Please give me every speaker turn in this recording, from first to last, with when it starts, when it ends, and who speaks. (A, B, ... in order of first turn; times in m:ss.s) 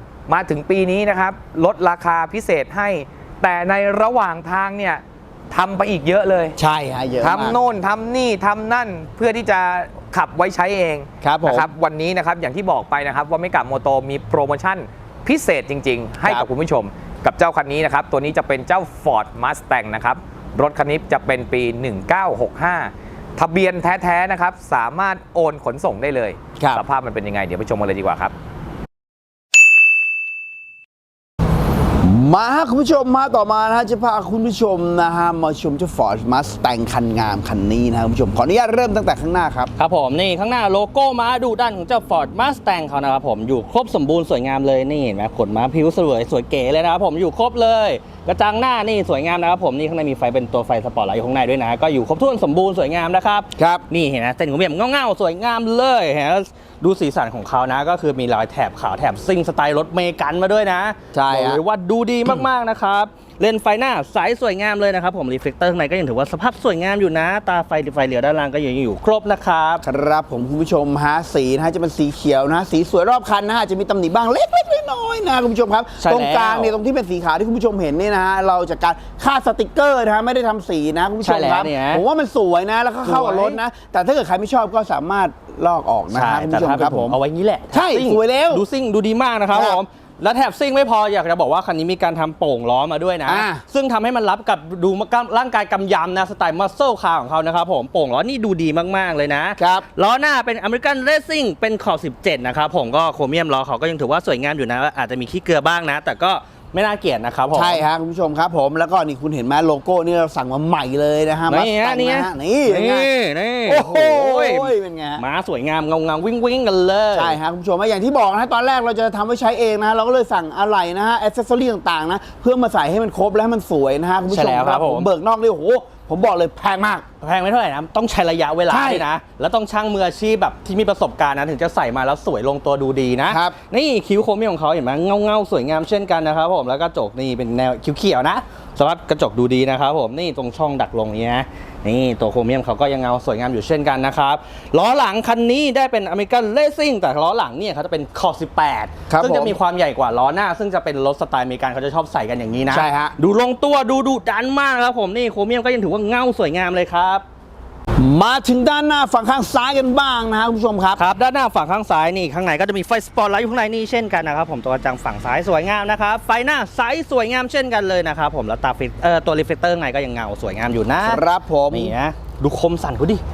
0:00.3-0:06.6 A
0:06.6-0:07.6 B
0:07.2-0:28.3 A
0:11.2-0:11.7 B
0:26.6-0:26.8 B
0:32.0-0:39.7 B
0:39.8-1:09.8 C
0:53.6-0:53.8 B
1:01.1-1:01.6 B
1:09.8-1:27.2 B
1:16.0-1:16.8 C
1:21.2-1:22.0 C
1:23.0-1:23.6 C
1:26.1-1:47.8 C
1:27.7-1:28.6 B
1:29.5-1:29.8 B
1:33.2-1:33.6 B
1:39.6-1:39.9 B
1:47.5-1:53.1 B
1:51.5-1:57.4 C
1:53.7-1:55.2 B
1:57.1-2:07.1 B
2:04.3-2:05.1 C
2:07.2-2:37.2 C
2:08.7-2:09.1 B
2:13.3-2:13.6 B
2:29.1-2:29.6 B
2:32.7-2:33.2 B
2:38.0-2:41.0 B
2:41.0-2:53.2 C
2:51.0-2:51.9 B